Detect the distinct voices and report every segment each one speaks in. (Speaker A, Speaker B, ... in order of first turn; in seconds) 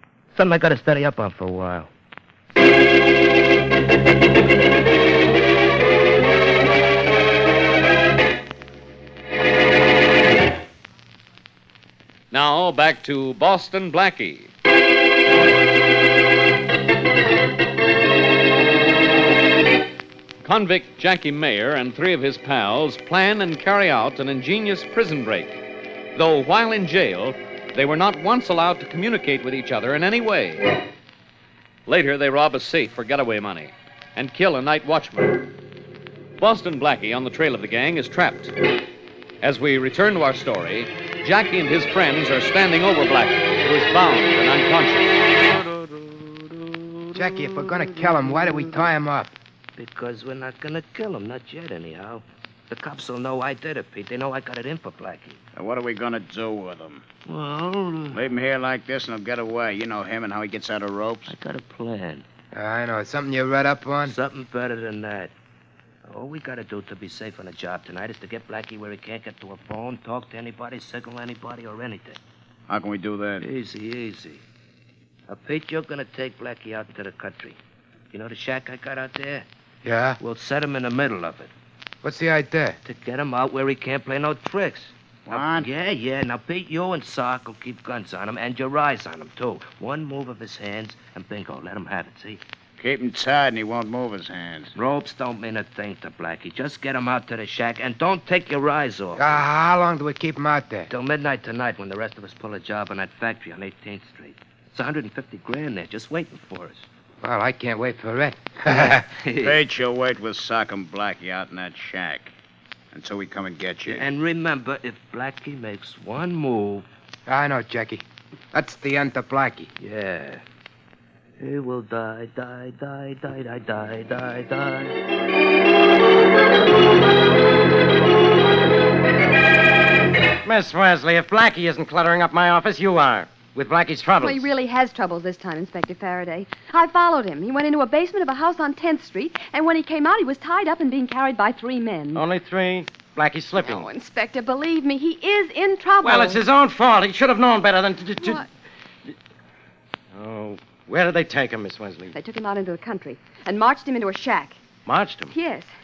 Speaker A: 0.3-1.9, 45.6-48.7, 49.8-55.4, 57.3-58.2, 61.3-62.2, 64.0-65.3, 66.0-72.2, 73.4-74.4, 75.3-77.6, 78.1-79.5, 80.2-81.5, 82.8-92.4, 94.8-99.4, 100.9-106.9, 109.3-109.5, 113.9-116.9, 119.8-120.4, 121.4-125.0
Speaker B: 12.3-14.5, 20.4-25.6, 26.1-30.7, 31.9-35.5, 36.4-38.5, 39.4-45.1
Speaker C: 47.1-49.3, 62.5-64.2, 79.8-80.2, 82.0-82.8, 99.2-100.9, 107.2-109.1, 117.3-119.7
Speaker D: 55.5-57.0, 58.1-61.3, 72.7-73.4, 85.3-85.7, 92.8-94.7, 109.4-112.3, 112.9-114.1
Speaker E: 130.4-134.5, 142.1-143.9, 146.0-148.4, 150.1-152.1, 154.9-155.3
Speaker F: 134.2-142.2, 143.6-146.4, 148.2-148.5, 152.1-154.6, 155.3-155.7